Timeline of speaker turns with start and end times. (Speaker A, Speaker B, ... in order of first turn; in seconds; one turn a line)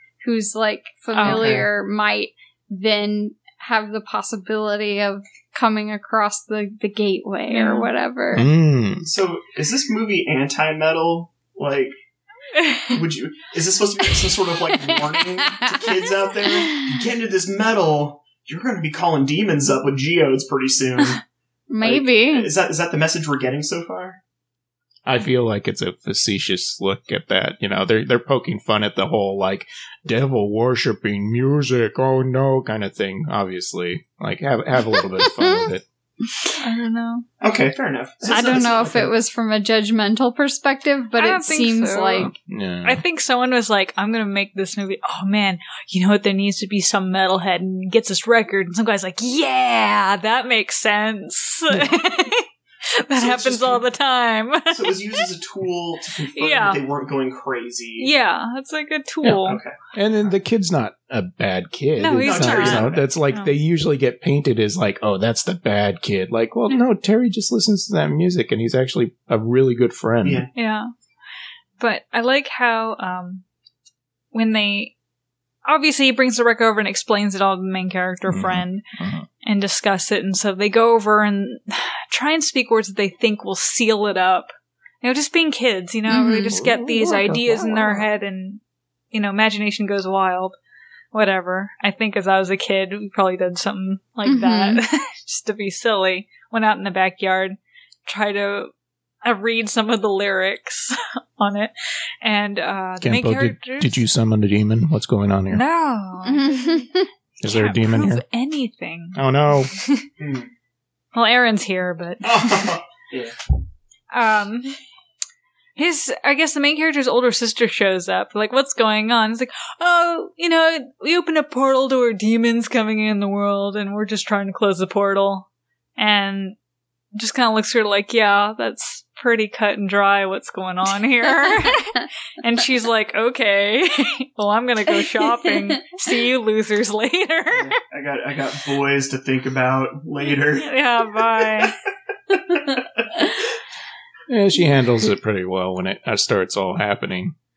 Speaker A: 0.2-8.5
Speaker B: 1.1-1.6
Speaker C: 1.2-1.7
Speaker B: 7.5-7.9
Speaker D: 8.3-9.1
Speaker C: 9.0-11.9
Speaker B: 12.6-13.0
Speaker C: 12.9-21.2
Speaker A: 15.5-15.9
Speaker A: 16.4-17.0
Speaker A: 21.7-22.5
Speaker C: 21.8-24.2
Speaker D: 25.1-35.8
Speaker A: 34.9-35.7
Speaker B: 36.6-37.2
Speaker C: 37.4-39.1
Speaker A: 38.3-42.3
Speaker B: 41.2-42.3
Speaker D: 42.2-43.0
Speaker B: 42.9-52.5
Speaker B: 53.0-55.2
Speaker C: 53.1-53.9
Speaker C: 54.7-58.1
Speaker B: 56.4-56.8
Speaker B: 58.0-59.6
Speaker C: 59.5-59.8
Speaker D: 59.9-70.5
Speaker B: 62.0-63.5
Speaker C: 62.2-63.1
Speaker C: 70.2-70.5
Speaker B: 70.5-70.9
Speaker B: 71.8-73.4
Speaker B: 74.3-74.9
Speaker B: 75.7-78.8
Speaker D: 78.3-79.3
Speaker B: 79.4-88.6
Speaker A: 86.1-86.6
Speaker D: 86.5-88.1
Speaker B: 89.1-90.5
Speaker B: 91.1-98.7
Speaker A: 94.2-94.8
Speaker B: 99.2-104.0
Speaker D: 103.0-105.6
Speaker B: 105.5-106.8
Speaker A: 106.2-107.1
Speaker D: 107.4-108.2
Speaker B: 107.4-109.2
Speaker D: 109.2-109.7
Speaker B: 109.7-110.0
Speaker C: 110.2-110.5
Speaker B: 111.1-112.7
Speaker C: 112.2-113.4
Speaker B: 114.1-114.8
Speaker B: 115.8-125.5
Speaker B: 126.0-126.6
Speaker B: 127.2-137.8
Speaker A: 135.1-135.8
Speaker C: 137.5-141.7
Speaker B: 140.2-141.8
Speaker C: 142.3-143.3
Speaker D: 144.3-147.3